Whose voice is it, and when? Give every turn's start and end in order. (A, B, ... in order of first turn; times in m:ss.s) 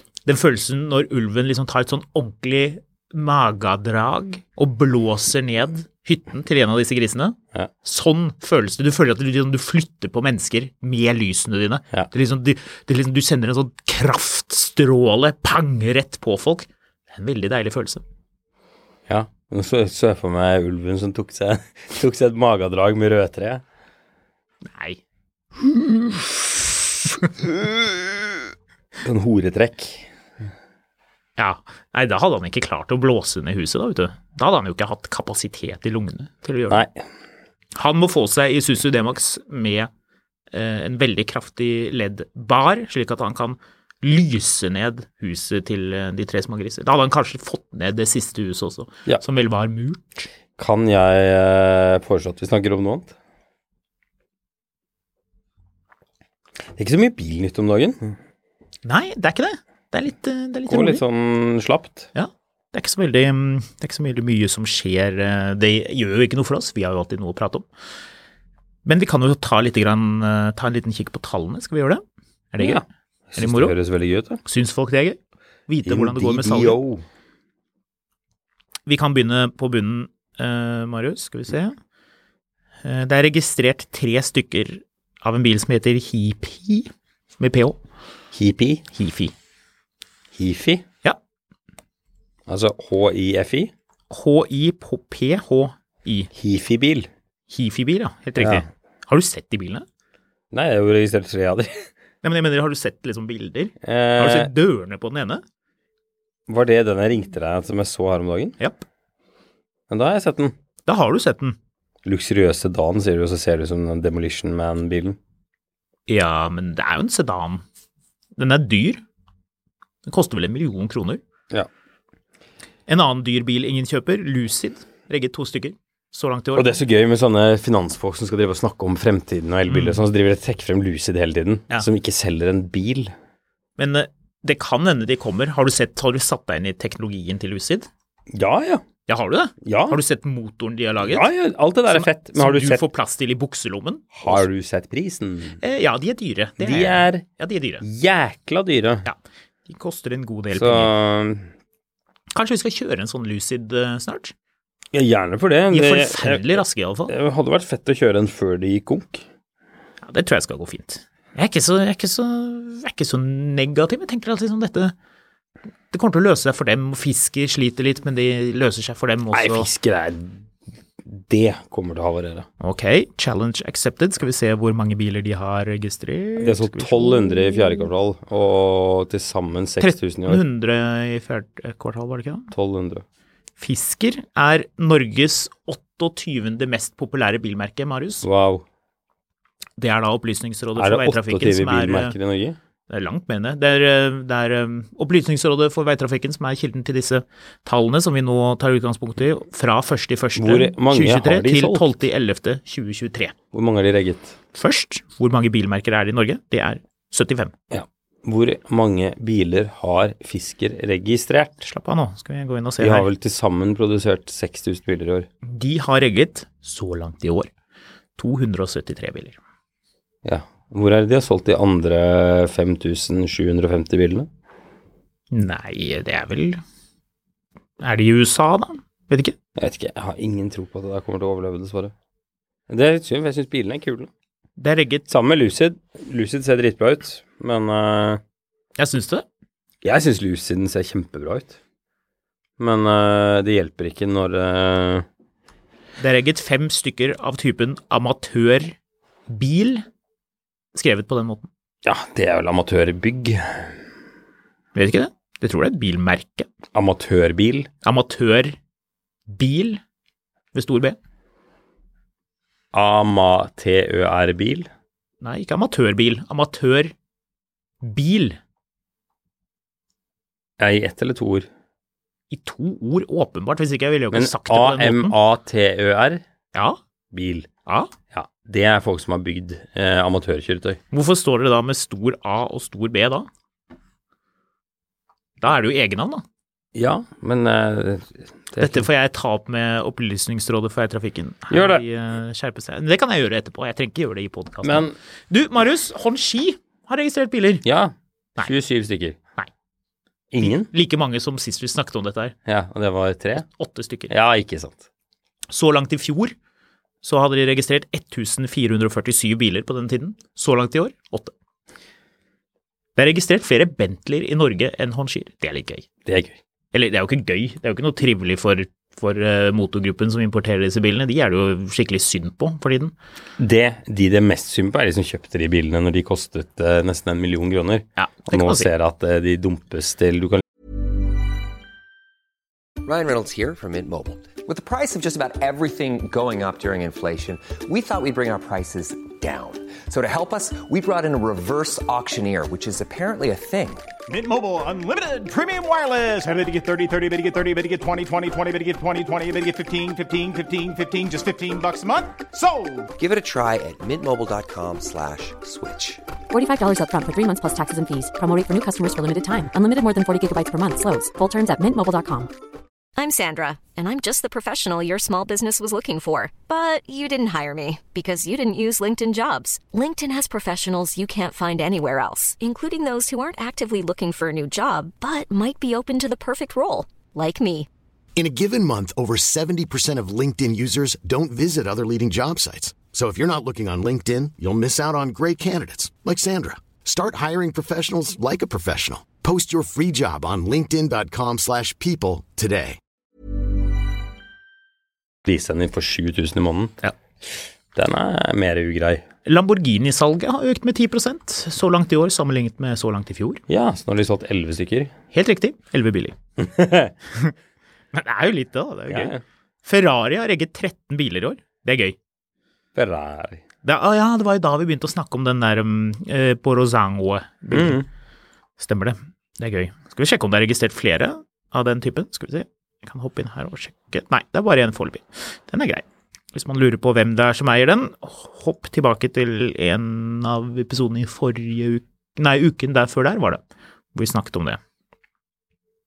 0:00.2-0:18.0 A
0:19.1-0:23.6 B
0:24.6-0:25.0 A
0:29.0-0:30.1 B
0:31.4-0:36.9 A
0:36.7-0:37.0 B
0:37.7-0:39.9 A
0:40.5-0:50.3 A
0:50.6-0:53.1 B
0:56.8-0:58.2 B
0:58.8-1:01.0 A
1:00.7-1:02.1 B
1:02.2-1:07.7 A
1:08.8-1:12.8 A
1:12.6-1:14.4 B
1:13.4-1:13.8 A
1:14.4-1:16.8 A
1:15.8-1:17.0 B
1:18.9-1:21.8 A
1:22.8-1:27.8 A
1:28.3-1:28.8 B
1:28.9-1:29.3 A
1:30.4-1:30.8 B
1:32.5-1:33.7 B
1:34.1-1:36.3 A
1:36.3-1:37.1 B
1:37.5-1:39.9 A
1:38.4-1:38.6 B
1:40.5-1:41.9 B
1:42.2-1:45.4 A
1:43.8-1:44.5 B
1:46.5-1:48.6 B
1:49.9-1:50.6 B
1:50.9-1:51.6 A
1:52.0-1:55.2 B
1:56.1-1:57.6 A
1:58.4-1:59.0 A
2:00.0-2:01.2 A
2:02.9-2:06.8 A
2:06.6-2:13.1 B
2:09.7-2:10.0 A
2:13.8-2:17.9 A
2:18.3-2:18.8 B
2:19.1-2:21.3 A
2:19.6-2:20.0 B
2:21.0-2:22.8 B
2:21.9-2:24.5 A
2:24.1-2:25.6 B
2:25.6-2:27.8 A
2:26.6-2:27.2 B
2:27.8-2:29.1 B
2:29.0-2:30.9 A
2:30.5-2:31.5 B
2:32.3-2:34.3 A
2:34.9-2:39.2 B
2:35.7-2:37.1 A
2:40.0-2:45.0 A
2:45.9-2:49.7 A
2:49.3-2:50.4 B
2:51.1-2:52.5 B
2:52.6-2:57.9 A
2:56.4-3:00.4 B
2:59.8-3:02.5 A
3:02.5-3:03.0 B
3:03.6-3:08.3 A
3:08.2-3:08.6 B
3:09.8-3:12.2 A
3:10.8-3:12.6 B
3:12.9-3:23.4 A
3:20.4-3:21.9 B
3:23.5-3:24.4 B
3:24.5-3:27.5 A
3:27.7-3:31.6 B
3:31.6-3:33.1 A
3:32.8-3:35.3 B
3:35.4-3:37.5 A
3:38.2-3:39.4 A
3:40.2-3:44.3 B
3:45.3-3:46.6 A
3:47.8-3:49.4 A
3:49.6-3:51.9 B
3:52.7-3:54.1 B
3:54.6-3:55.1 A
3:55.1-3:58.2 B
3:58.8-3:59.3 A
3:59.8-4:01.6 B
4:02.6-4:05.1 B
4:06.0-4:08.8 A
4:09.3-4:09.9 A
4:10.7-4:11.5 A
4:11.8-4:13.7 B
4:14.8-4:16.5 A
4:16.7-4:17.7 B
4:17.8-4:18.6 A
4:19.3-4:19.8 A
4:20.5-4:21.0 A
4:22.7-4:24.7 B
4:25.2-4:26.9 A
4:27.8-4:28.4 A
4:30.6-4:31.5 B
4:32.3-4:35.2 A
4:34.1-4:36.2 B
4:36.5-4:36.8 A
4:37.1-4:37.5 B
4:37.7-4:37.9 A
4:38.1-4:40.8 B
4:40.9-4:43.3 A
4:45.4-4:46.2 A
4:46.8-4:48.9 B
4:48.6-4:57.6 A
4:51.5-4:51.8 B
4:54.6-4:55.0 B
4:57.6-4:59.2 B
5:00.3-5:00.7 B
5:00.4-5:02.4 A
5:02.5-5:03.4 B
5:03.4-5:04.1 A
5:04.1-5:04.8 B
5:05.5-5:06.4 A
5:07.0-5:11.3 A
5:13.0-5:15.9 A
5:16.0-5:16.4 B
5:16.7-5:23.0 A
5:23.4-5:30.4 B
5:28.0-5:28.7 A
5:32.8-5:43.9 C
5:44.1-5:52.9 D
5:53.0-5:56.0 C
5:56.3-6:02.3 E
6:03.0-6:17.7 F
6:18.2-6:32.8 G
6:35.2-6:36.7 B
6:37.8-6:39.1 B
6:39.2-6:43.4 A
6:43.5-6:44.9 B
6:45.1-6:46.2 A
6:46.4-6:46.9 B
6:47.9-6:52.0 A
6:48.9-6:49.2 B
6:52.8-6:53.4 B
6:53.6-6:57.8 A
6:57.5-6:57.9 B
6:58.6-7:14.6 A